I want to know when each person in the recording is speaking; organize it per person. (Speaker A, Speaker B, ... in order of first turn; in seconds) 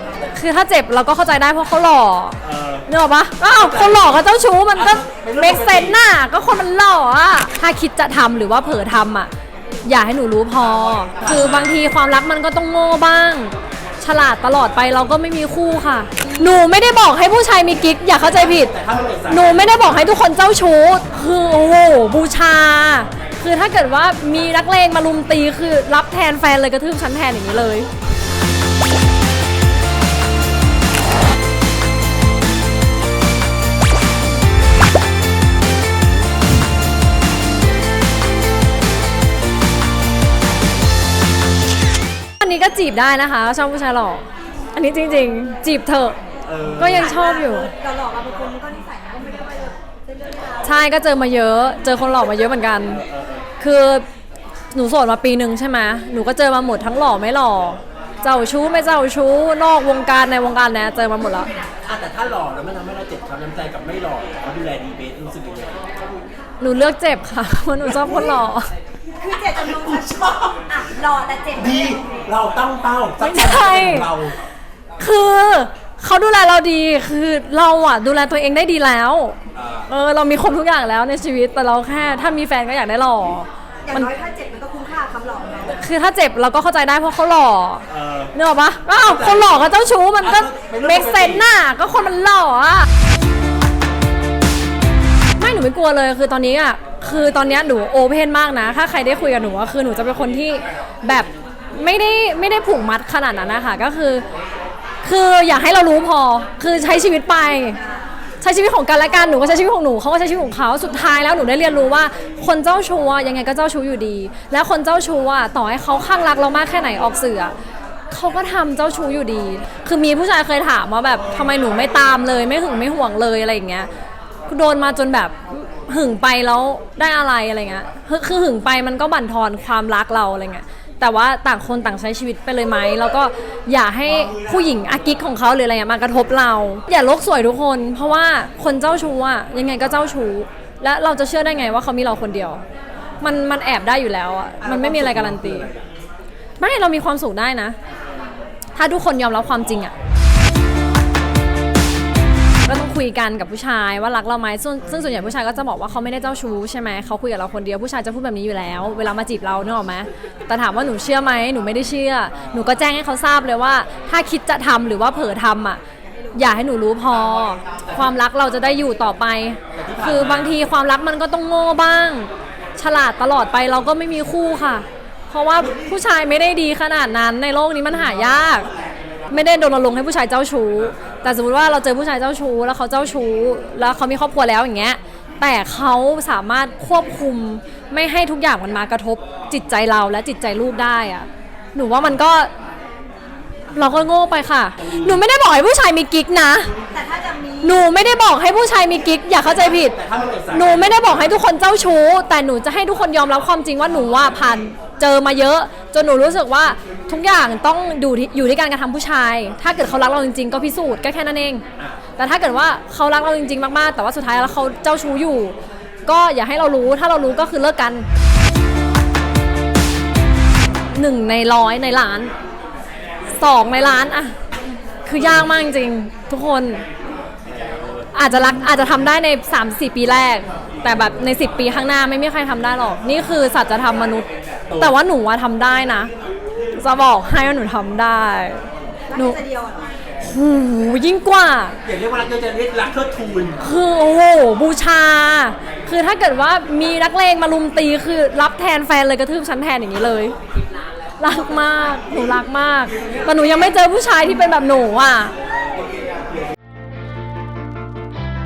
Speaker A: 0.3-9.3, 9.8-18.7, 19.3-27.9, 42.4-46.2, 46.8-47.7, 50.6-53.0, 53.6-54.1, 54.7-61.5, 66.6-68.7, 73.2-74.1, 75.0-84.1, 85.7-92.9, 95.4-104.2, 105.0-107.8, 108.4-117.5, 118.1-123.9, 124.5-142.6, 143.2-145.7, 146.6-147.8, 148.7-149.9, 152.7-165.8, 166.3-178.7, 179.3-192.5, 193.7-196.7, 197.6-200.0, 200.5-211.6, 212.2-218.1, 220.9-222.3, 223.4-224.3, 225.0-226.8, 228.1-236.1, 236.7-238.6, 239.1-239.4, 240.2-241.8, 243.6-250.3, 251.2-255.3
Speaker B: 2.4-2.9, 3.5-6.0, 10.9-11.8, 18.3-19.8, 46.5-47.1, 52.9-53.5, 61.8-65.8, 69.8-70.6, 71.5-74.3, 79.5-79.9, 87.9-88.3, 88.9-89.7, 90.2-91.5, 144.6-145.9, 169.7-170.6, 199.4-201.3, 227.6-228.0, 234.7-234.9, 241.8-243.6
Speaker C: 47.0-50.6, 69.2-72.1, 83.8-85.8, 196.9-197.8, 239.1-239.9